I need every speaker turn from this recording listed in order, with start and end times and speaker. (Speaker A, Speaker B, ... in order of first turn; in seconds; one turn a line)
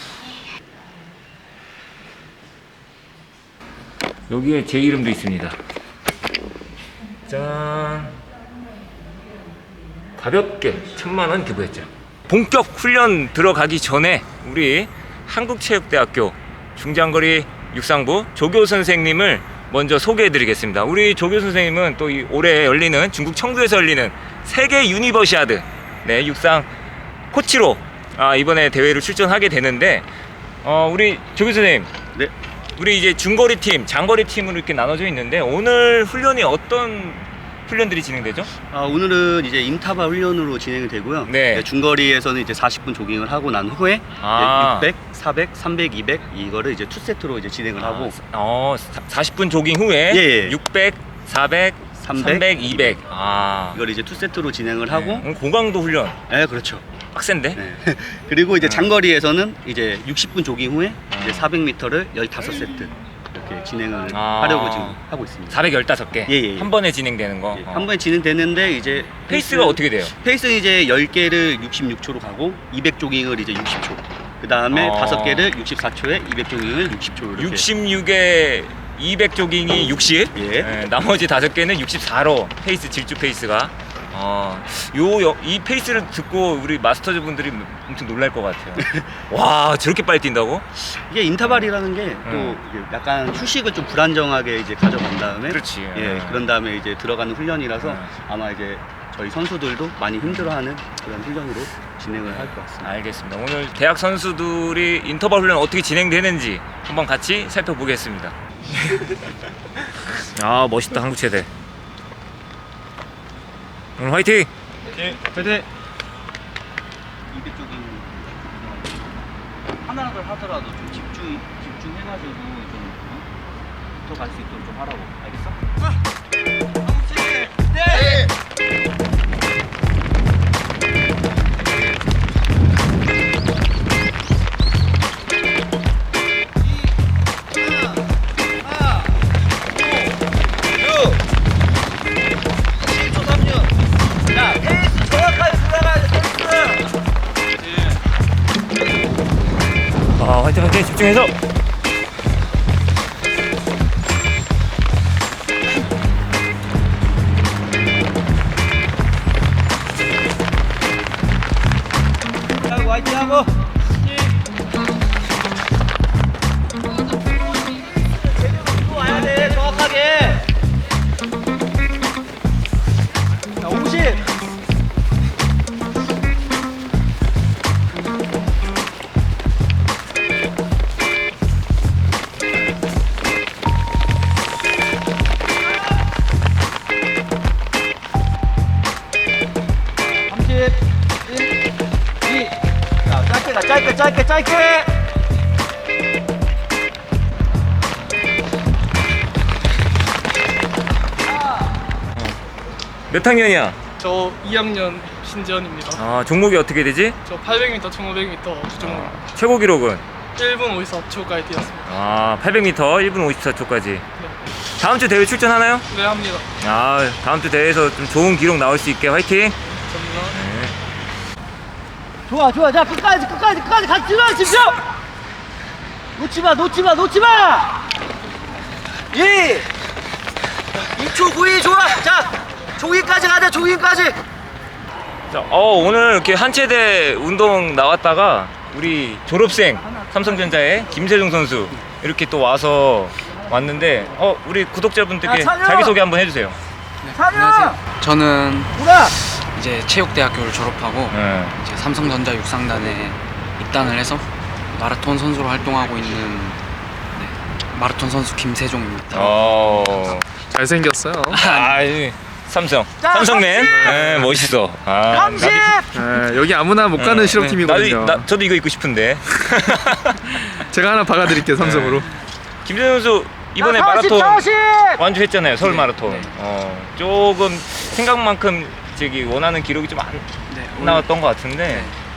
Speaker A: 4.3-5.6
Speaker A: 7.3-8.2
Speaker A: 10.2-26.7
Speaker A: 27.3-30.1
Speaker A: 30.6-31.9
Speaker A: 32.8-38.5
Speaker B: 38.7-48.1
Speaker A: 41.3-41.7
Speaker A: 44.2-44.9
Speaker A: 47.8-53.8
Speaker B: 50.1-50.6
Speaker B: 52.0-53.0
Speaker B: 53.7-55.3
Speaker A: 54.9-56.2
Speaker B: 56.3-56.9
Speaker A: 57.1-57.6
Speaker B: 57.5-65.6
Speaker A: 58.6-58.9
Speaker A: 61.1-61.5
Speaker A: 64.1-67.9
Speaker B: 66.3-66.7
Speaker B: 67.5-77.7
Speaker A: 69.3-70.2
Speaker A: 74.7-75.5
Speaker A: 77.4-90.7
Speaker B: 80.3-80.7
Speaker B: 88.8-89.1
Speaker B: 90.8-102.9
Speaker A: 92.3-92.6
Speaker A: 95.5-96.4
Speaker A: 97.8-98.1
Speaker A: 100.2-100.5
Speaker A: 102.3-108.3
Speaker A: 110.2-111.5
Speaker A: 114.0-114.5
Speaker B: 114.9-115.7
Speaker B: 117.3-119.3
Speaker B: 119.8-123.3
Speaker B: 124.0-125.6
Speaker B: 126.9-128.3
Speaker B: 138.6-141.2
Speaker B: 142.8-143.7
Speaker B: 144.3-146.9
Speaker A: 150.2-151.3
Speaker B: 162.7-164.3
Speaker B: 168.2-170.5
Speaker B: 173.6-174.2
Speaker B: 190.3-191.5
Speaker B: 192.2-192.5
Speaker B: 193.1-194.9
Speaker A: 203.1-203.8
Speaker C: 204.0-206.0
Speaker A: 205.9-207.2
Speaker C: 207.2-209.1
Speaker A: 208.8-210.1
Speaker C: 210.4-211.8
Speaker A: 211.9-214.1
Speaker A: 214.8-215.9
Speaker C: 215.9-216.5
Speaker A: 216.6-219.6
Speaker C: 219.9-220.4
Speaker A: 220.3-220.8
Speaker B: 222.3-224.8
Speaker B: 226.2-227.7
Speaker B: 229.1-229.7
Speaker B: 230.9-234.2
Speaker A: 235.3-246.6
Speaker B: 245.2-245.9
Speaker D: 247.0-260.2
Speaker B: 247.1-247.8
Speaker B: 248.8-249.1
Speaker A: 251.1-251.6
Speaker A: 259.1-260.3
Speaker E: 260.4-261.4
Speaker A: 261.3-265.8
Speaker D: 261.4-261.7
Speaker B: 263.0-264.1
Speaker E: 263.5-264.2
Speaker B: 265.1-266.0
Speaker E: 265.9-268.3
Speaker A: 267.0-270.5
Speaker E: 270.7-272.1
Speaker A: 271.5-272.1
Speaker A: 272.6-281.9
Speaker B: 273.6-275.0
Speaker D: 275.6-276.3
Speaker D: 280.5-281.1
Speaker D: 281.6-282.0